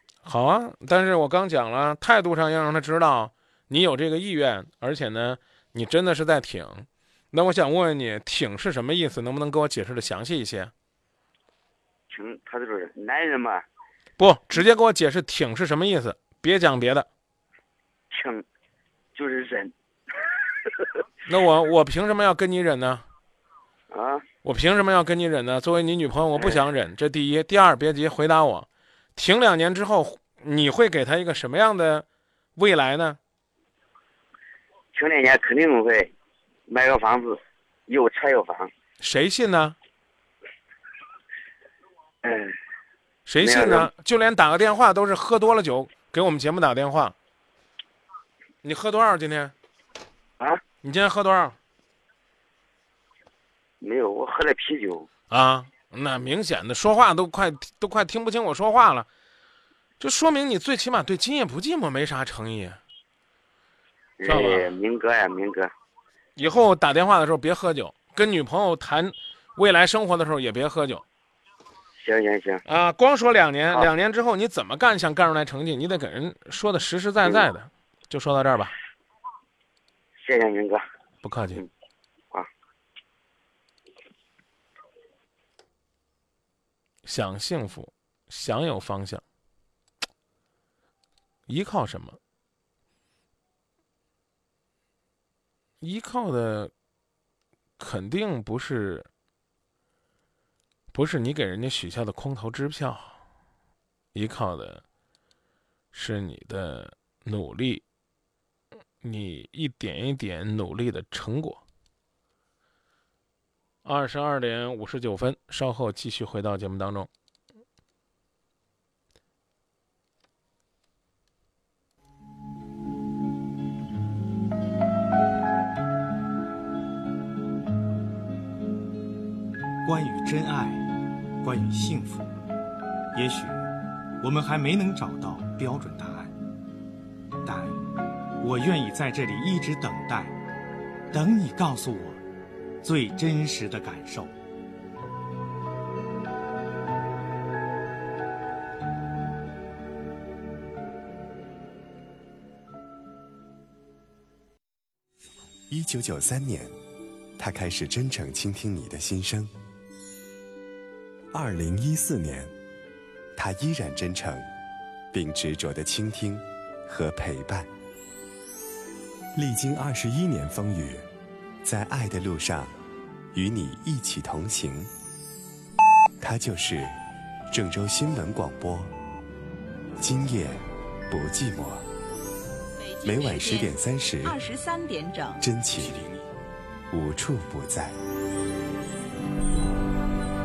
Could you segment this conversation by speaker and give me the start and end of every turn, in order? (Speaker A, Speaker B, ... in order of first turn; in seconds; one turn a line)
Speaker A: 0.2-10.7
Speaker B: 12.1-13.6
Speaker A: 14.2-17.1
Speaker B: 18.1-18.4
Speaker B: 19.1-19.7
Speaker A: 21.3-23.1
Speaker B: 23.9-24.2
Speaker A: 24.4-33.2
Speaker B: 34.9-36.1
Speaker B: 36.7-38.7
Speaker A: 39.0-39.8
Speaker B: 42.2-42.5
Speaker A: 43.3-47.1
Speaker B: 43.4-43.9
Speaker A: 48.6-49.5
Speaker A: 50.8-51.6
Speaker B: 53.8-55.1
Speaker A: 55.3-59.1
Speaker A: 60.0-62.8
Speaker B: 64.2-65.7
Speaker A: 64.3-64.7
Speaker A: 66.4-71.0
Speaker B: 72.0-72.6
Speaker A: 72.7-78.8
Speaker B: 80.2-80.8
Speaker A: 81.2-81.6
Speaker A: 87.0-89.2
Speaker A: 91.5-92.2
Speaker A: 95.8-96.7
Speaker A: 97.8-99.1
Speaker A: 100.9-103.2
Speaker A: 104.1-104.8
Speaker A: 105.9-107.8
Speaker A: 109.0-111.6
Speaker A: 113.8-117.1
Speaker C: 129.8-130.8
Speaker C: 131.4-132.3
Speaker C: 133.1-136.3
Speaker C: 137.4-137.8
Speaker C: 138.4-140.4
Speaker C: 141.1-142.2
Speaker C: 142.8-144.3
Speaker D: 155.7-156.7
Speaker D: 157.4-159.5
Speaker D: 161.3-162.5
Speaker D: 163.4-164.5
Speaker D: 165.1-167.7
Speaker D: 169.3-171.1
Speaker D: 171.6-172.7
Speaker D: 173.3-174.9
Speaker D: 176.2-177.0
Speaker D: 177.5-178.9
Speaker D: 180.0-181.9
Speaker E: 182.8-186.1
Speaker D: 183.0-184.4
Speaker D: 185.4-186.1
Speaker D: 186.9-188.0